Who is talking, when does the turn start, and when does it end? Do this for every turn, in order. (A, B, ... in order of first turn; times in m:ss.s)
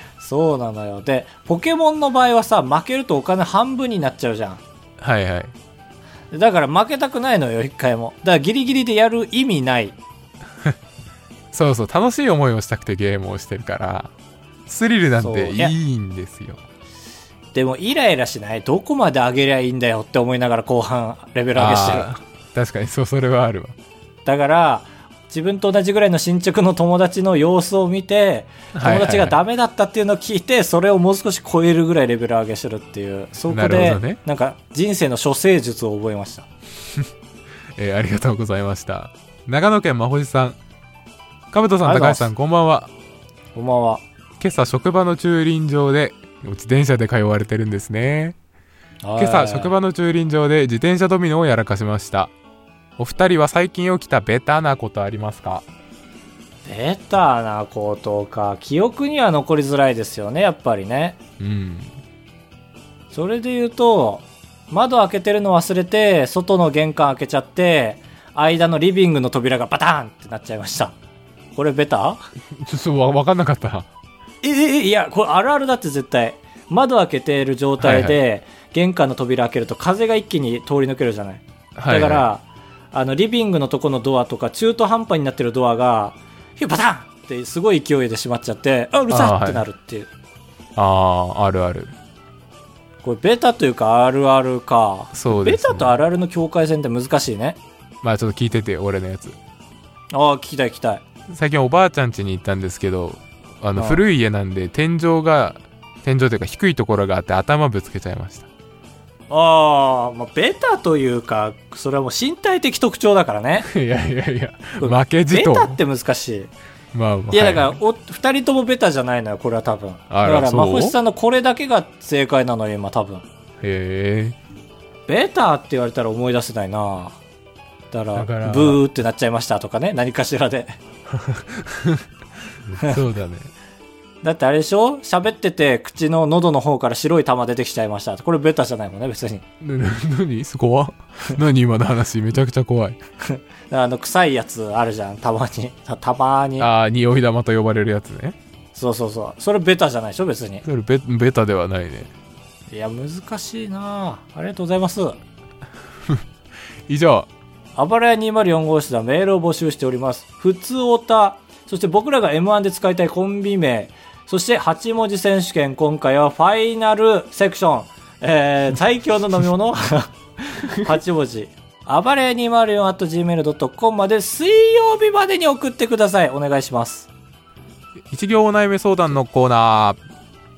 0:00.2-0:04.6 A
0:05.0-0:05.5 B
0:06.3-0:10.0 A
0:11.5-0:14.1 B
0:14.7-0:16.6 B
0:15.2-0:15.7 A
0:17.5-0:22.1 A
0:21.5-0:23.7 B
0:24.2-0:36.5 A
0:28.7-0:29.4 B
0:33.5-0:34.2 B
0:37.8-0:40.6 B
0:41.5-0:42.9 B
0:41.8-0:42.3 A
0:43.5-0:44.0 A
0:44.4-0:48.4 B
0:49.0-0:49.7 A
0:49.2-0:52.3 B
0:53.0-0:55.7 B
0:56.6-1:01.2 A
1:01.4-1:01.9 B
1:03.1-1:10.9 A
1:11.6-1:12.2 A
1:12.6-1:13.9 B
1:14.4-1:30.1 A
1:17.8-1:18.1 B
1:21.8-1:22.2 B
1:29.1-1:29.6 B
1:30.8-1:31.9 B
1:33.0-1:37.6 A
1:35.1-1:35.9 B
1:38.0-1:39.4 B
1:40.1-1:41.0 A
1:41.3-1:48.5 B
1:43.7-1:44.0 A
1:49.3-1:53.7 A
1:53.6-1:55.8 B
1:54.8-1:56.5 A
1:56.9-1:57.8 B
1:57.3-2:03.2 A
2:00.1-2:01.0 B
2:03.6-2:04.4 B
2:05.1-2:07.2 A
2:07.9-2:10.8 A
2:08.2-2:08.8 B
2:11.1-2:12.0 B
2:12.7-2:13.5 B
2:14.2-2:19.4 A
2:19.6-2:23.0 B
2:23.2-2:26.7 A
2:26.6-2:28.4 B
2:28.7-2:30.6 A
2:30.6-2:32.1 B
2:32.7-2:35.2 A
2:36.9-2:37.3 B
2:37.8-2:57.1 A
2:58.1-3:00.0 B